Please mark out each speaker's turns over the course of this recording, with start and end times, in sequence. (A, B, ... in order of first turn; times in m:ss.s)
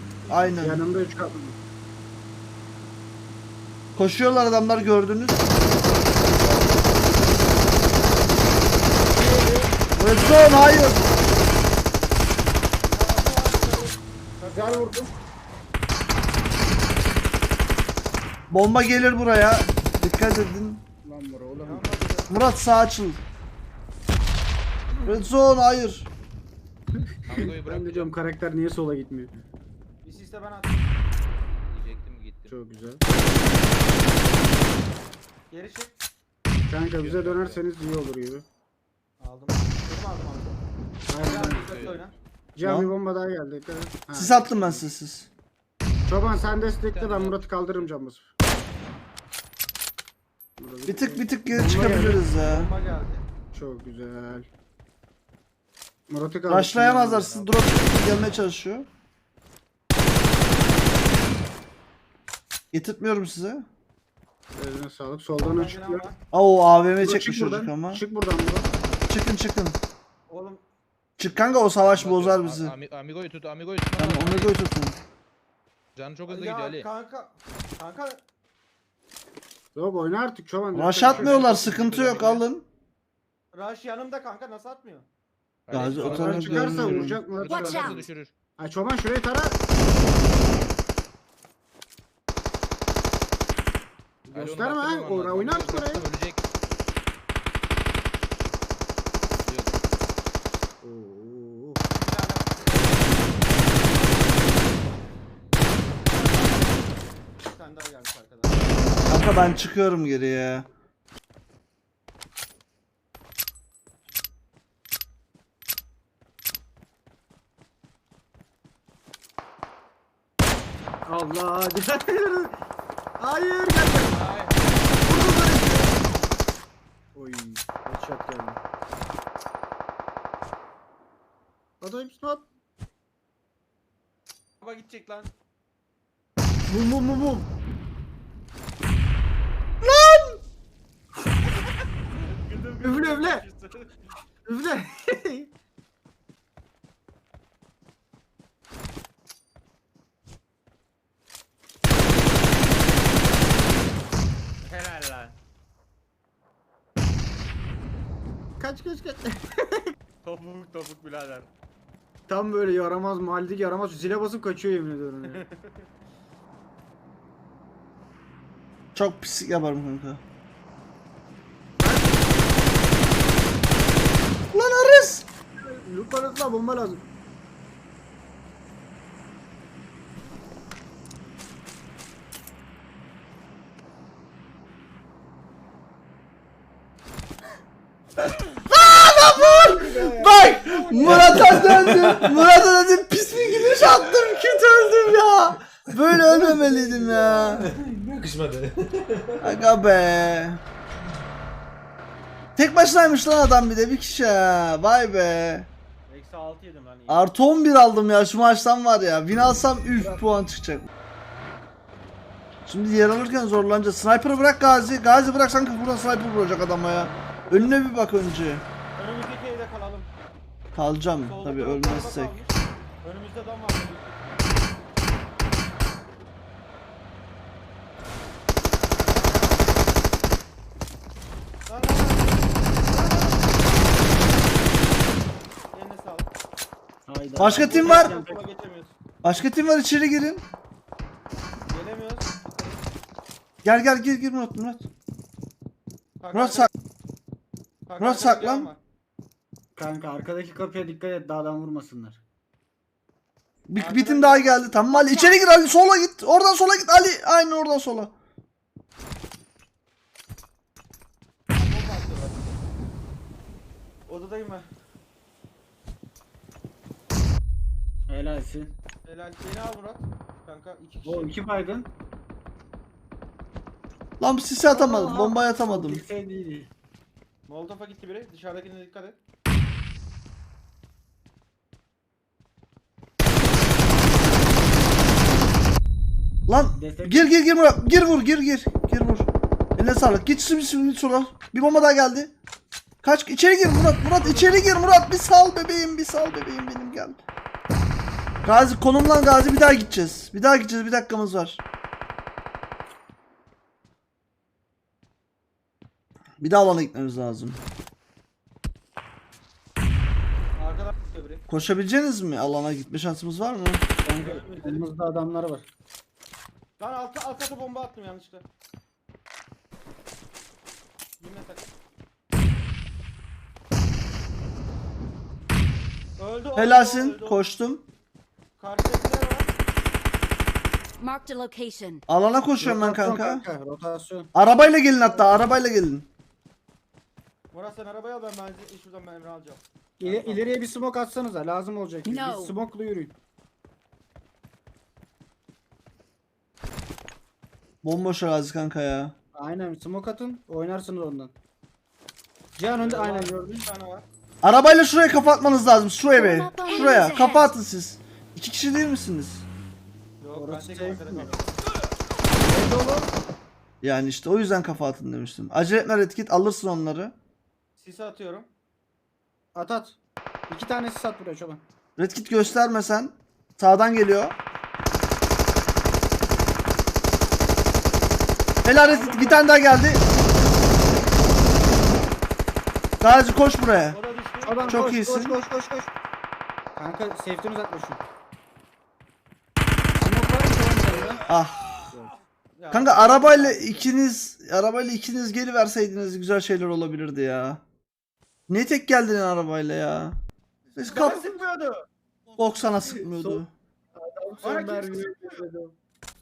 0:00.3-0:00.8 A
0:00.6-0:01.6 B
0:04.0-0:05.5 A
0:09.1-0:09.7 B
0:10.0-0:11.1 A
0:12.9-0:14.9 C
0:14.5-0:15.1 B
0:18.5-0:20.8 A
0:21.0-0:22.0 B
0:21.6-0:22.5 C
0:22.3-0:23.2 A
0:25.0-0:26.1 A
0:27.0-0:29.3 B
0:27.3-0:28.1 D
0:30.0-0:30.8 C
0:31.7-0:32.6 D
0:32.5-0:33.0 B
0:35.5-0:35.9 C
0:36.7-0:38.4 B
0:37.0-0:37.6 D
0:39.2-0:40.6 C
0:41.1-0:41.9 B
0:41.2-0:42.1 C
0:41.5-0:42.0 D
0:42.6-0:44.8 B
0:42.6-0:42.9 A
0:44.1-0:45.3 A
0:46.1-0:48.3 B
0:46.3-0:47.9 D
0:50.6-0:52.3 B
0:50.9-0:52.7 A
0:52.3-0:53.3 C
0:53.5-0:54.5 B
0:56.1-0:57.5 B
0:56.5-0:58.9 A
1:02.7-1:03.7 A
1:04.6-1:06.0 B
1:05.4-1:06.2 C
1:06.3-1:08.0 A
1:07.0-1:08.7 B
1:09.1-1:09.8 A
1:10.3-1:10.6 C
1:11.2-1:12.7 A
1:11.8-1:14.6 D
1:14.0-1:15.0 A
1:16.0-1:16.9 D
1:16.3-1:18.2 C
1:19.8-1:21.8 B
1:20.7-1:22.6 A
1:21.0-1:22.4 C
1:23.5-1:25.1 C
1:25.7-1:28.3 D
1:25.7-1:27.2 A
1:26.0-1:28.1 B
1:27.5-1:28.1 E
1:28.6-1:29.6 B
1:34.3-1:36.1 B
1:34.3-1:36.4 D
1:39.4-1:39.8 D
1:40.8-1:41.8 B
1:41.9-1:43.8 C
1:46.1-1:48.7 C
1:49.1-1:50.7 A
2:01.1-2:02.6 B
2:03.2-2:04.2 B
2:04.1-2:04.8 C
2:05.0-2:06.0 B
2:07.2-2:08.6 B
2:11.8-2:12.4 B
2:14.6-2:15.3 C
2:16.7-2:17.5 B
2:19.8-2:20.4 A
2:22.1-2:23.9 C
2:22.8-2:23.4 B
2:24.5-2:25.5 B
2:34.6-2:35.4 C
2:38.6-2:39.8 B
2:40.2-2:41.5 C
2:42.3-2:45.4 B
2:45.3-2:45.8 C
2:49.0-2:50.2 A
2:51.8-2:52.3 B
2:54.5-2:55.2 A
2:55.6-2:57.0 B
3:08.7-3:17.7 A
3:09.3-3:11.2 B
3:11.0-3:12.4 F
3:13.4-3:13.9 F
3:16.5-3:17.7 B
3:17.6-3:19.6 F
3:19.4-3:20.6 A
3:22.6-3:25.7 A
3:26.1-3:27.3 C
3:27.1-3:30.9 A
3:32.7-3:38.6 A
3:36.8-3:37.8 C
3:39.0-3:40.1 C
3:40.7-3:42.4 A
3:41.2-3:44.5 C
3:49.0-3:49.7 C
3:51.7-3:54.4 C
3:55.7-3:56.3 C
3:57.1-3:58.4 B
3:57.4-3:58.1 A
3:57.5-3:59.0 C
3:59.2-4:00.4 A
4:01.7-4:02.8 C
4:03.6-4:04.9 A
4:06.2-4:06.7 C
4:06.3-4:06.7 A
4:07.9-4:08.8 C
4:08.0-4:08.7 A
4:09.8-4:12.2 B
4:13.7-4:18.1 A
4:13.8-4:15.4 C
4:21.5-4:22.6 C
4:24.1-4:24.7 C
4:28.1-4:28.7 B
4:29.0-4:31.8 C
4:31.0-4:31.9 B
4:34.2-4:36.0 A
4:34.7-4:36.7 B
4:37.5-4:39.2 C
4:46.5-4:52.3 A
4:46.8-4:47.3 B
4:53.0-4:57.2 A
4:58.4-5:01.6 A
5:06.4-5:07.6 A
5:10.6-5:11.5 C
5:11.5-5:13.8 A
5:14.0-5:15.6 B
5:14.1-5:14.9 C
5:16.8-5:18.5 C
5:21.2-5:21.7 C
5:26.2-5:27.4 C
5:26.6-5:27.9 A
5:28.6-5:29.5 C
5:31.0-5:32.0 E
5:32.1-5:33.4 A
5:32.6-5:34.3 B
5:34.3-5:36.1 A
5:35.0-5:35.5 B
5:37.5-5:40.5 C
5:40.0-5:43.2 B
5:42.0-5:42.6 E
5:47.8-5:49.1 A
5:49.4-5:51.3 B
5:52.6-5:53.7 B
5:52.8-5:54.0 C
5:54.4-5:59.4 A
5:56.2-5:57.5 E
6:00.2-6:01.4 C
6:00.3-6:01.4 B
6:02.4-6:03.1 B
6:03.8-6:07.1 A
6:07.8-6:08.5 C
6:09.6-6:10.0 B
6:10.5-6:11.6 B
6:12.0-6:14.4 A
6:18.6-6:20.0 A
6:18.9-6:19.4 B
6:23.0-6:24.0 A
6:23.9-6:24.8 C
6:24.4-6:25.9 B
6:24.7-6:25.4 A
6:26.8-6:28.0 B
6:30.0-6:31.2 B
6:31.3-6:31.6 A
6:32.6-6:33.9 C
6:32.7-6:37.6 A
6:38.5-6:40.2 A
6:40.8-6:41.4 A
6:40.9-6:41.8 C
6:42.4-6:43.5 A
6:42.8-6:43.4 B
6:44.0-6:45.8 B
6:44.4-6:45.4 C